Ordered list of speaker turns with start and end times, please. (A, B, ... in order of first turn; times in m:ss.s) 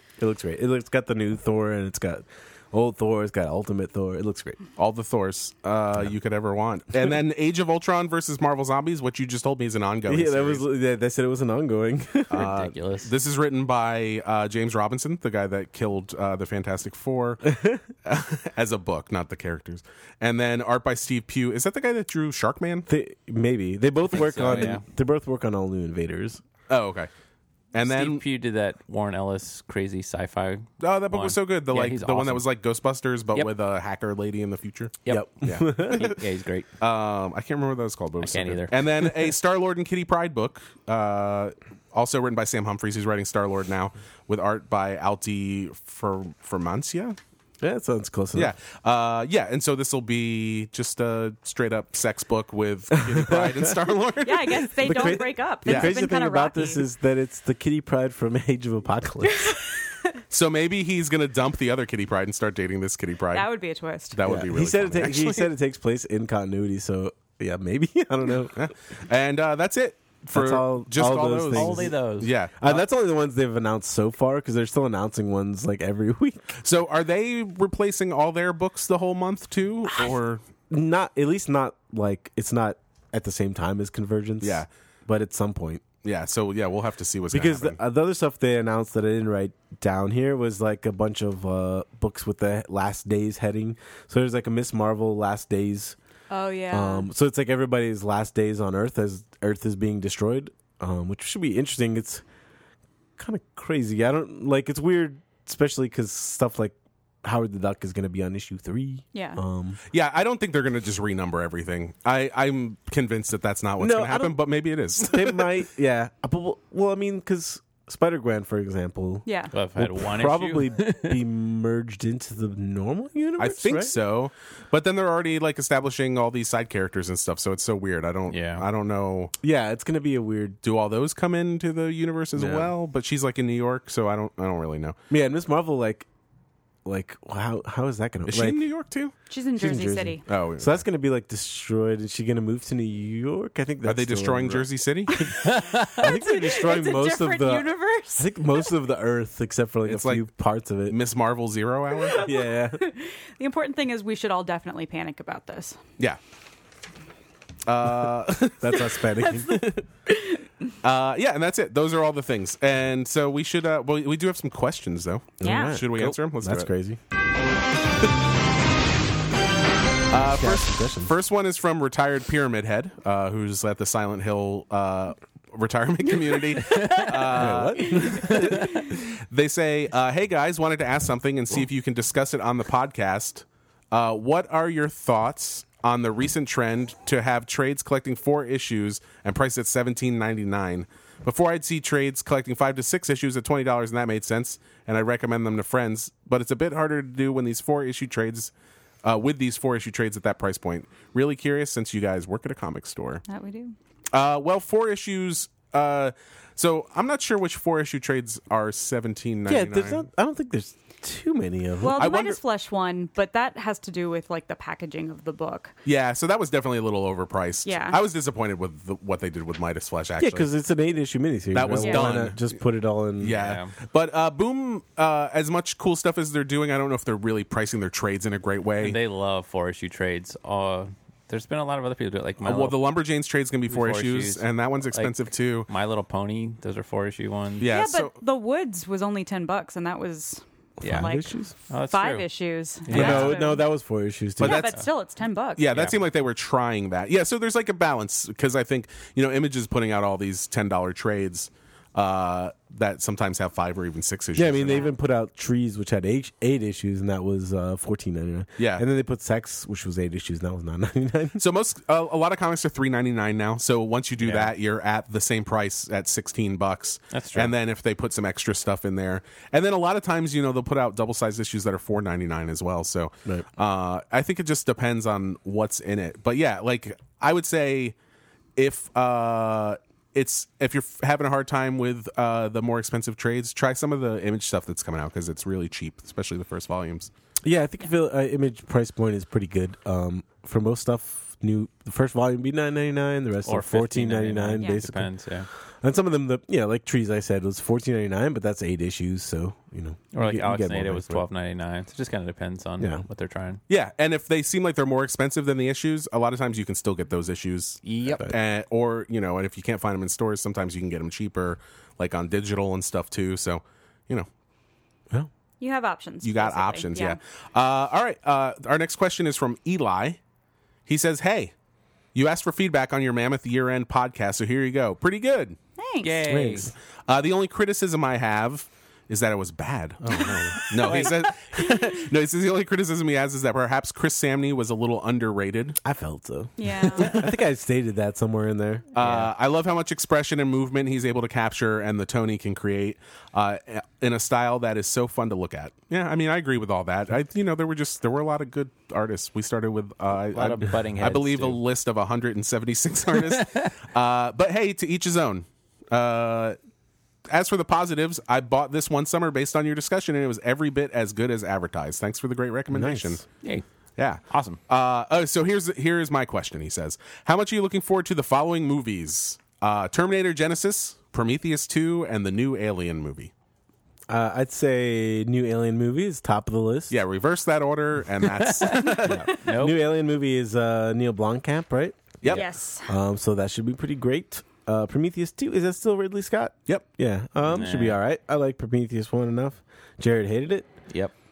0:00.2-0:04.6 A
0:04.8-0:10.6 B
0:10.1-0:12.5 A
0:12.3-0:17.5 B
0:12.3-0:13.1 C
0:17.5-0:17.8 A
0:18.0-0:22.9 B
0:22.9-0:26.4 A
0:24.1-0:24.8 C
0:26.7-0:27.1 B
0:27.7-0:28.2 B
0:27.8-0:32.5 C
0:30.8-0:36.2 B
0:35.0-0:36.7 C
0:35.1-0:36.1 A
0:36.8-0:47.2 B
0:38.2-0:39.2 C
0:47.6-0:48.5 A
0:48.3-0:56.0 B
0:52.9-0:53.8 A
0:54.2-0:56.8 D
0:54.8-0:59.5 A
0:59.3-1:00.1 D
1:00.3-1:03.5 B
1:03.3-1:04.2 D
1:04.1-1:05.5 B
1:04.2-1:08.7 A
1:08.6-1:12.8 B
1:10.3-1:11.9 A
1:11.5-1:12.3 C
1:12.6-1:16.6 A
1:16.6-1:20.4 B
1:20.7-1:25.8 A
1:24.4-1:24.7 B
1:26.0-1:27.8 B
1:27.3-1:36.0 A
1:36.3-1:37.1 D
1:36.7-1:42.2 A
1:43.2-1:49.8 A
1:49.1-1:49.4 D
1:49.9-1:55.5 B
1:53.8-1:54.4 A
1:55.0-2:04.0 A
1:59.3-1:59.5 D
1:59.5-2:01.2 C
2:03.4-2:09.3 B
2:08.3-2:08.6 C
2:09.4-2:10.6 A
2:10.6-2:15.0 B
2:12.4-2:12.7 A
2:15.1-2:16.1 A
2:16.8-2:18.6 A
2:18.3-2:19.1 B
2:19.3-2:20.2 D
2:19.6-2:31.0 A
2:20.3-2:20.8 B
2:23.8-2:25.3 B
2:25.1-2:28.7 D
2:25.5-2:25.9 C
2:29.9-2:30.2 B
2:30.9-2:32.3 B
2:32.1-2:35.8 D
2:32.1-2:32.9 A
2:37.7-2:39.0 B
2:38.6-2:39.9 A
2:39.2-2:40.4 D
2:40.8-2:46.7 B
2:45.4-2:47.0 A
2:45.4-2:45.8 D
2:50.1-3:18.5 B
2:50.3-2:51.1 A
2:56.7-2:57.1 D
2:57.3-2:58.7 A
3:19.0-3:23.2 B
3:23.3-3:23.8 D
3:24.1-3:30.0 B
3:29.5-3:32.1 A
3:31.8-3:35.7 D
3:32.0-3:32.4 B
3:35.8-3:40.5 B
3:37.6-3:38.0 D
3:40.2-3:43.3 A
3:41.5-3:42.4 B
3:41.8-3:42.1 D
3:43.2-3:49.0 B
3:43.3-3:43.7 C
3:48.8-3:52.8 C
3:52.4-3:55.7 B
3:53.7-3:55.1 C
3:55.7-3:57.7 C
3:57.6-3:58.1 B
3:57.7-4:03.7 D
4:00.8-4:01.5 A
4:00.8-4:01.1 C
4:01.7-4:02.3 C
4:02.9-4:03.4 C
4:02.9-4:03.4 B
4:02.9-4:04.7 A
4:04.4-4:05.7 D
4:04.4-4:04.8 B
4:05.6-4:14.9 B
4:05.7-4:06.0 C
4:14.4-4:21.4 A
4:14.6-4:15.0 D
4:18.6-4:18.8 B
4:21.4-4:38.0 B
4:24.2-4:24.5 C
4:27.1-4:27.5 C
4:38.6-4:47.1 B
4:47.4-4:55.1 A
4:53.5-4:55.5 C
4:54.6-4:54.8 D
4:55.8-5:01.3 A
5:00.1-5:03.6 C
5:03.7-5:14.3 B
5:07.8-5:08.3 C
5:15.6-5:17.2 D
5:16.2-5:20.2 B
5:20.9-5:21.5 B
5:22.2-5:25.6 B
5:25.8-5:26.3 D
5:26.0-5:26.7 C
5:26.3-5:26.7 A
5:27.1-5:35.8 B
5:30.7-5:31.2 C
5:31.6-5:31.8 D
5:35.8-5:39.0 A
5:36.6-5:37.3 D
5:38.9-5:56.6 B
5:39.0-5:39.3 C
5:50.3-5:51.6 C
5:53.2-5:53.7 C
5:57.3-6:03.2 B
6:02.7-6:03.2 A
6:04.0-6:13.3 B
6:04.3-6:04.6 C
6:14.1-6:16.9 A
6:16.9-6:19.3 B
6:18.3-6:19.8 C
6:19.0-6:30.7 A
6:22.3-6:22.9 D
6:27.4-6:28.0 C
6:30.9-6:31.1 C